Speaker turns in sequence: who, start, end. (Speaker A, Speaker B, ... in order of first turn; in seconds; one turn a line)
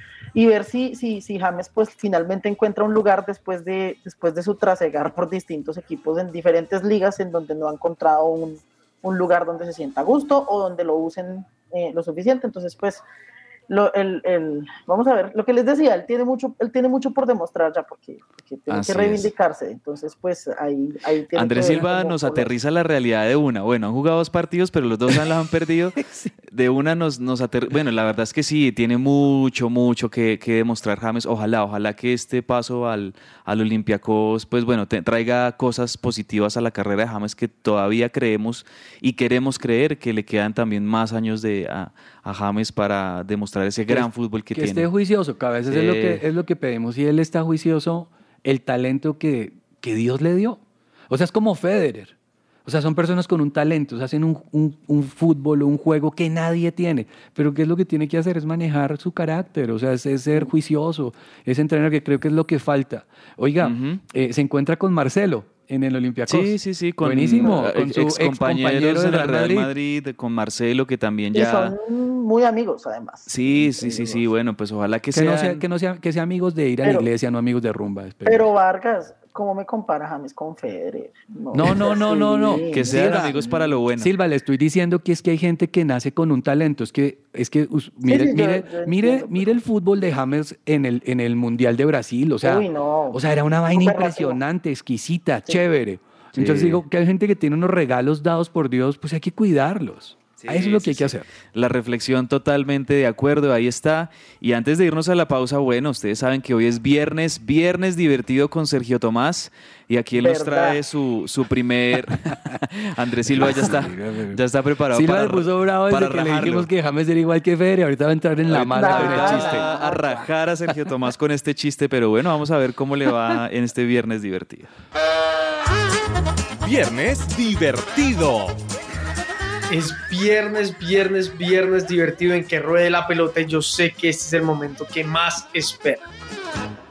Speaker A: 0.3-13.0
Speaker A: 13.7-22.5
Speaker B: 18.7-19.3
Speaker B: 21.3-44.9
Speaker C: 43.9-52.1
Speaker B: 45.7-46.2
Speaker C: 52.7-69.7
Speaker B: 63.6-64.0
Speaker B: 66.3-71.8
Speaker A: 71.3-74.2
Speaker B: 73.3-75.6
Speaker C: 75.1-78.5
Speaker A: 78.3-83.6
Speaker C: 81.5-101.3
Speaker B: 82.7-84.1
Speaker A: 88.0-89.6
Speaker A: 92.4-94.4
Speaker B: 96.4-96.8
Speaker B: 100.4-116.7
Speaker A: 110.2-110.8
Speaker C: 113.3-119.7
Speaker B: 118.5-124.7
Speaker A: 118.6-120.2
Speaker D: 126.6-128.6
Speaker E: 129.7-136.1